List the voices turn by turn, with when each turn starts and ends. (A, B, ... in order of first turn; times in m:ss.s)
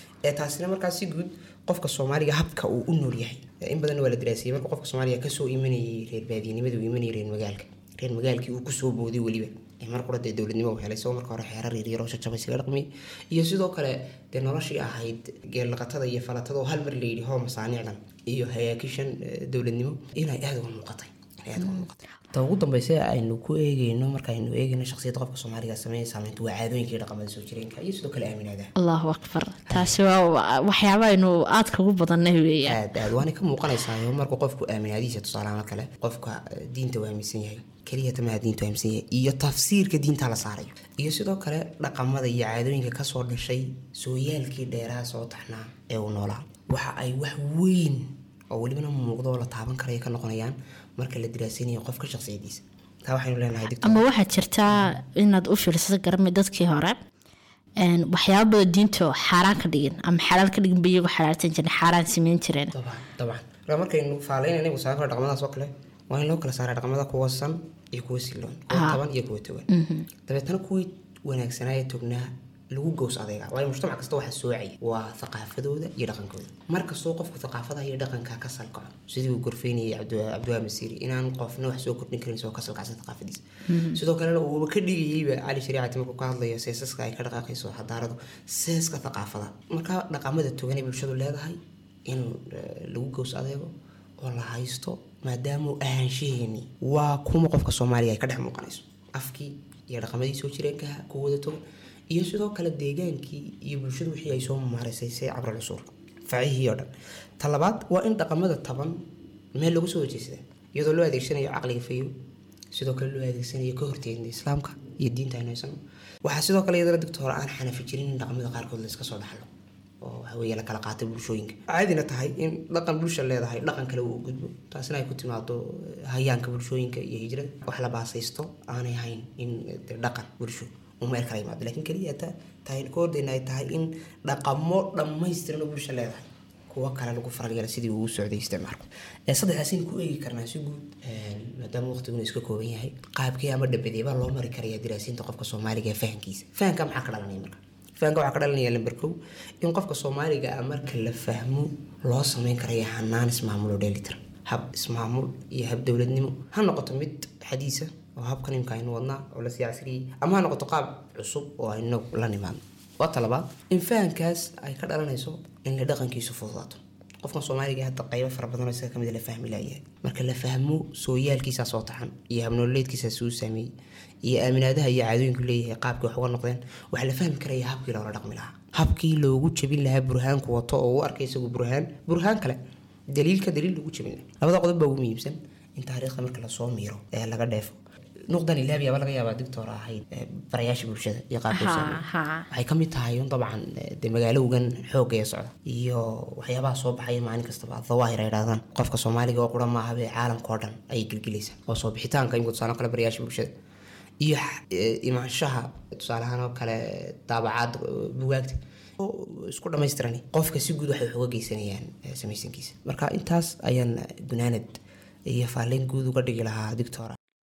0:00.2-0:28.7 A
0:21.6-0:21.8 B
0:28.8-0:32.9 B
0:29.7-0:30.0 A
0:32.6-0:54.0 A
0:53.8-0:57.0 B
0:57.8-1:02.7 B
1:02.7-1:09.7 A
1:08.7-1:09.0 B
1:09.7-1:10.1 B
1:10.2-1:49.0 A
1:23.7-1:24.0 B
1:49.6-1:52.1 A
1:52.7-1:59.5 A
2:00.0-2:53.7 A
2:54.2-3:02.6 A
3:03.1-3:07.8 A
3:08.3-3:23.5 A
3:11.5-3:12.5 B
3:24.2-3:37.2 A